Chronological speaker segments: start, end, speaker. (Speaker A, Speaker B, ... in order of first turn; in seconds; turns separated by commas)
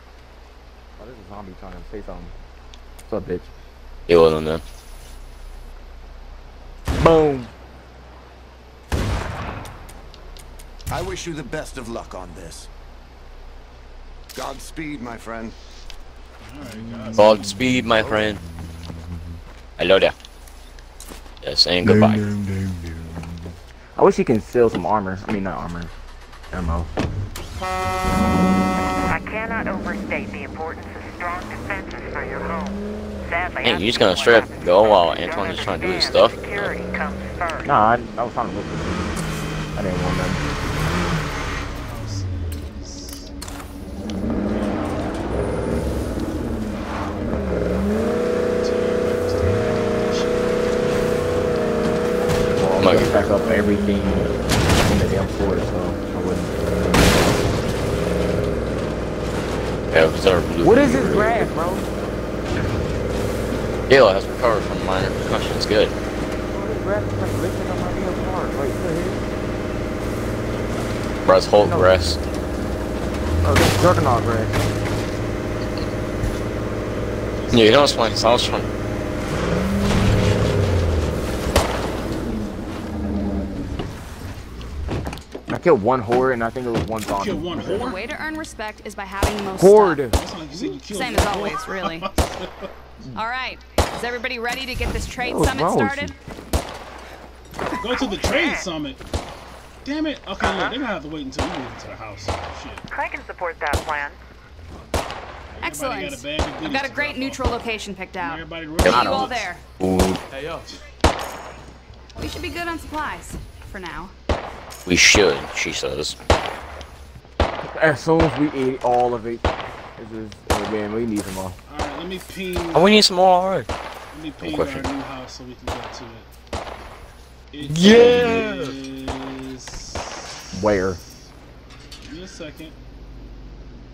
Speaker A: 1.0-2.3, Speaker A: 3.1-3.5, Speaker B: 4.1-4.6, Speaker A: 6.9-7.5, Speaker C: 10.9-12.7, Speaker C: 14.3-15.6, Speaker D: 16.4-17.5, Speaker B: 17.2-18.4, Speaker C: 17.9-18.4, Speaker B: 19.8-20.1, Speaker B: 21.4-22.2, Speaker A: 21.8-23.4, Speaker A: 23.9-25.9, Speaker A: 26.5-26.9, Speaker E: 29.1-37.7, Speaker B: 33.6-36.7, Speaker A: 37.6-39.2, Speaker A: 39.7-40.5, Speaker D: 41.7-43.3, Speaker D: 48.3-50.6, Speaker A: 52.5-57.1, Speaker B: 52.8-53.1, Speaker B: 59.9-61.5, Speaker A: 60.6-61.9, Speaker B: 63.9-65.9, Speaker A: 66.5-69.2, Speaker B: 71.2-72.2, Speaker A: 71.6-71.9, Speaker A: 73.4-74.6, Speaker D: 77.2-78.7, Speaker B: 77.5-78.7, Speaker A: 85.5-87.8, Speaker D: 87.1-88.0, Speaker F: 87.7-90.0, Speaker A: 89.4-90.2, Speaker D: 90.1-92.7, Speaker F: 90.6-92.1, Speaker F: 93.1-96.1, Speaker A: 95.2-96.1, Speaker D: 97.8-99.0, Speaker E: 98.3-98.6, Speaker D: 99.8-102.8, Speaker E: 102.9-104.2, Speaker D: 105.6-107.5, Speaker F: 105.6-109.6, Speaker D: 108.2-109.4, Speaker B: 108.8-109.1, Speaker A: 108.9-109.4, Speaker B: 109.8-110.2, Speaker C: 110.3-110.7, Speaker F: 112.2-114.1, Speaker B: 114.8-116.2, Speaker A: 117.6-121.6, Speaker D: 121.7-123.0, Speaker B: 122.7-123.7, Speaker D: 124.1-126.3, Speaker B: 124.4-124.9, Speaker D: 127.5-130.3, Speaker B: 127.7-128.6, Speaker A: 127.8-128.5, Speaker C: 128.0-128.7, Speaker A: 130.5-131.0, Speaker D: 132.0-132.7